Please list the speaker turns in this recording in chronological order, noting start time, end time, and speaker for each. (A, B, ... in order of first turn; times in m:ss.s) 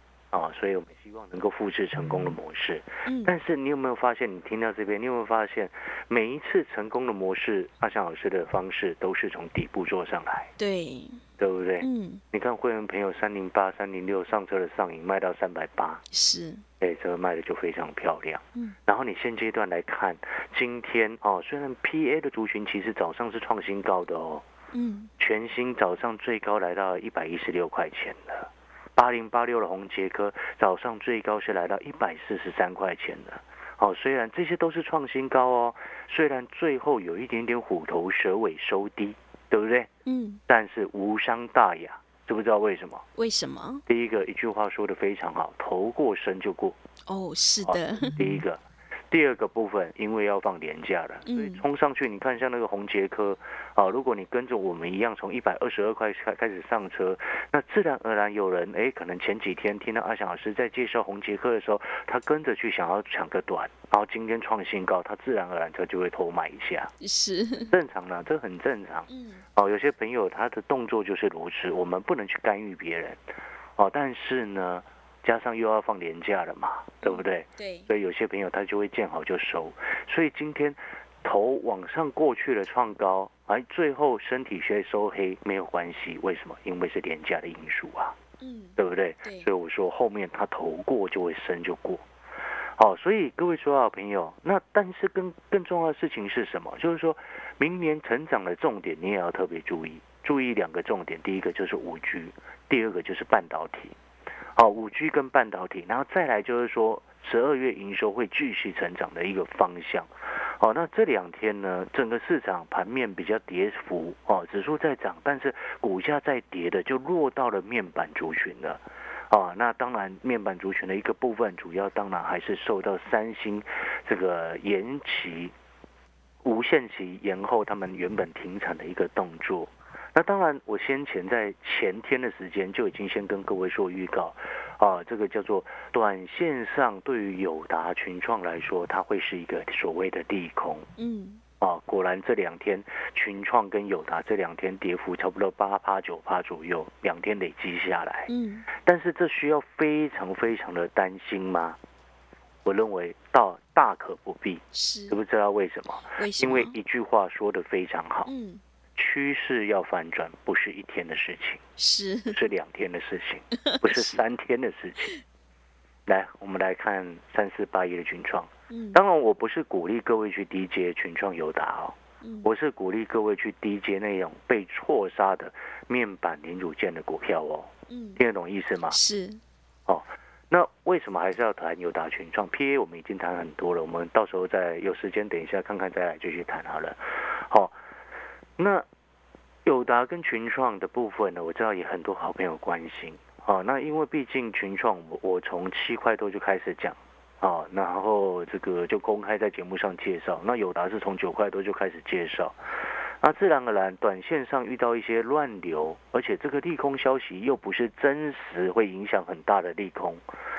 0:00.3-0:10.5 A
0:03.0-0:03.3 B
0:10.6-0:11.2 B
0:11.4-0:16.0 A
0:11.8-0:12.2 B
0:16.1-0:16.6 B
0:16.8-0:24.4 A
0:24.7-0:25.1 B
0:25.2-0:39.9 A
0:40.0-0:40.4 B
0:40.5-0:43.0 A
0:43.2-0:43.8 B
0:43.9-0:46.8 A
0:47.1-0:48.4 B
0:47.6-1:06.9 A
0:51.2-0:51.6 B
1:07.0-1:07.7 B
1:07.7-1:13.2 A
1:09.1-1:09.4 B
1:13.8-1:28.2 A
1:17.0-1:17.9 B
1:28.4-1:29.5 B
1:28.8-1:32.0 A
1:32.8-1:43.9 A
1:44.6-2:05.5 A
2:06.4-2:20.9 A
2:21.0-2:21.4 B
2:21.6-2:31.8 A
2:28.3-2:28.7 B
2:32.6-2:38.3 A
2:34.7-2:35.2 B
2:36.2-2:36.7 B
2:38.3-2:38.6 B
2:39.0-2:41.6 A
2:41.8-2:42.4 B
2:42.3-2:45.1 A
2:43.6-2:44.2 B
2:46.0-2:59.0 A
2:48.7-2:49.0 B
2:52.2-2:52.5 B
2:57.9-2:58.2 B
2:58.9-2:59.4 B
2:59.9-3:07.7 A
3:08.6-3:08.8 A
3:09.6-3:22.6 A
3:23.2-3:30.2 A